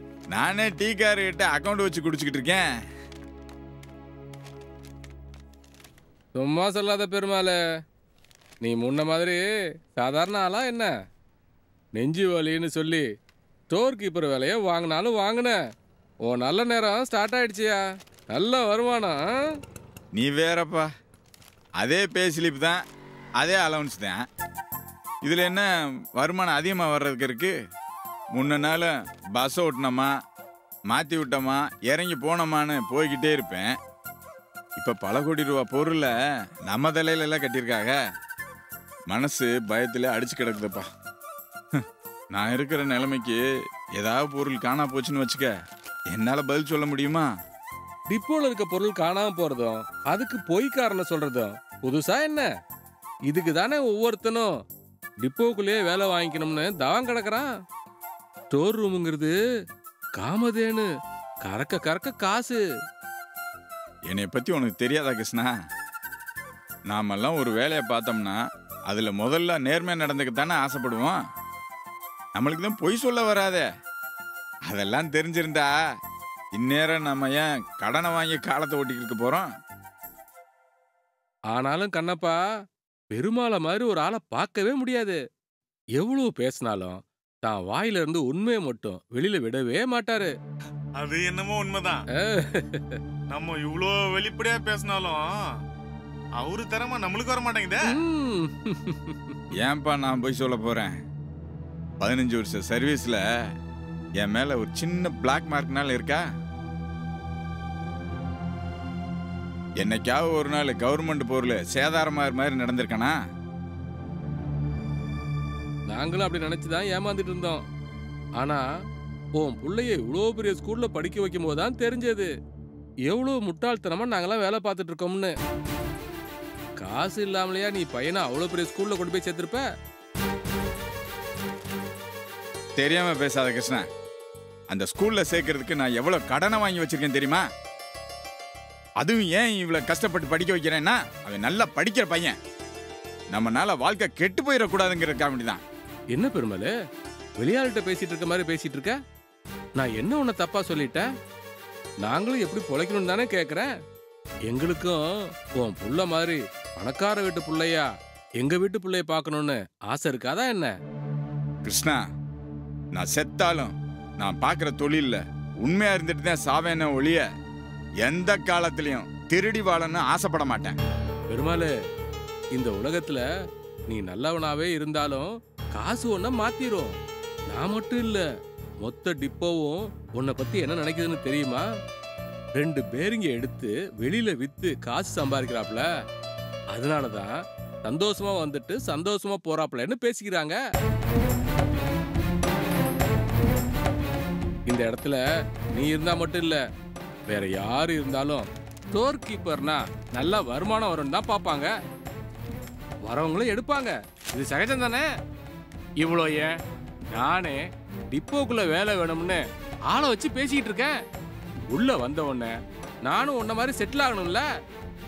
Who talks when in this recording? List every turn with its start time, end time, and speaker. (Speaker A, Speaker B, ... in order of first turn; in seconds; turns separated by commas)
Speaker A: 0.3-2.7, Speaker B: 6.3-7.6, Speaker B: 8.6-9.4, Speaker B: 10.0-10.9, Speaker B: 11.9-13.0, Speaker B: 13.7-15.6, Speaker B: 16.3-17.8, Speaker B: 18.3-19.2, Speaker A: 20.1-20.9, Speaker A: 21.8-22.8, Speaker A: 23.4-24.2, Speaker A: 25.2-27.5, Speaker A: 28.3-30.1, Speaker A: 30.9-33.7, Speaker A: 34.8-36.1, Speaker A: 36.7-38.0, Speaker A: 39.1-40.9, Speaker A: 42.3-43.4, Speaker A: 44.0-45.5, Speaker A: 46.1-47.3, Speaker B: 48.1-52.5, Speaker B: 53.3-54.5, Speaker B: 55.2-57.5, Speaker B: 58.5-59.3, Speaker B: 60.2-60.9, Speaker B: 61.4-62.6, Speaker A: 64.1-65.5, Speaker A: 66.9-71.2, Speaker A: 72.3-73.7, Speaker A: 74.7-75.7, Speaker A: 76.5-79.5, Speaker B: 81.5-82.4, Speaker B: 83.1-85.2, Speaker B: 86.0-90.3, Speaker C: 91.0-92.0, Speaker B: 92.2-93.0, Speaker C: 93.3-95.4, Speaker C: 96.4-98.0, Speaker B: 97.8-99.4, Speaker A: 99.6-101.0, Speaker A: 102.0-103.2, Speaker A: 104.2-106.2, Speaker A: 109.8-113.2, Speaker B: 115.9-117.6, Speaker B: 118.4-118.7, Speaker B: 119.4-122.3, Speaker B: 123.1-125.3, Speaker B: 126.8-129.6, Speaker A: 132.8-133.8, Speaker A: 134.7-137.4, Speaker A: 139.0-142.3, Speaker A: 143.3-145.6, Speaker B: 146.1-146.7, Speaker B: 147.4-149.0, Speaker B: 149.8-151.1, Speaker B: 152.0-153.7, Speaker B: 154.5-155.1, Speaker B: 155.6-157.9, Speaker B: 158.4-160.7, Speaker A: 161.6-162.0, Speaker A: 162.9-167.2, Speaker A: 168.0-170.8, Speaker B: 171.3-171.7, Speaker B: 172.5-173.2, Speaker B: 173.9-176.9, Speaker B: 177.5-178.2, Speaker B: 178.8-181.6, Speaker B: 182.6-185.8, Speaker B: 186.7-187.3, Speaker B: 187.8-190.6, Speaker B: 194.7-195.2, Speaker B: 195.7-196.6, Speaker B: 197.3-201.7, Speaker B: 203.0-205.0, Speaker B: 206.0-206.5, Speaker B: 207.1-210.9, Speaker B: 211.7-212.5, Speaker B: 213.0-214.4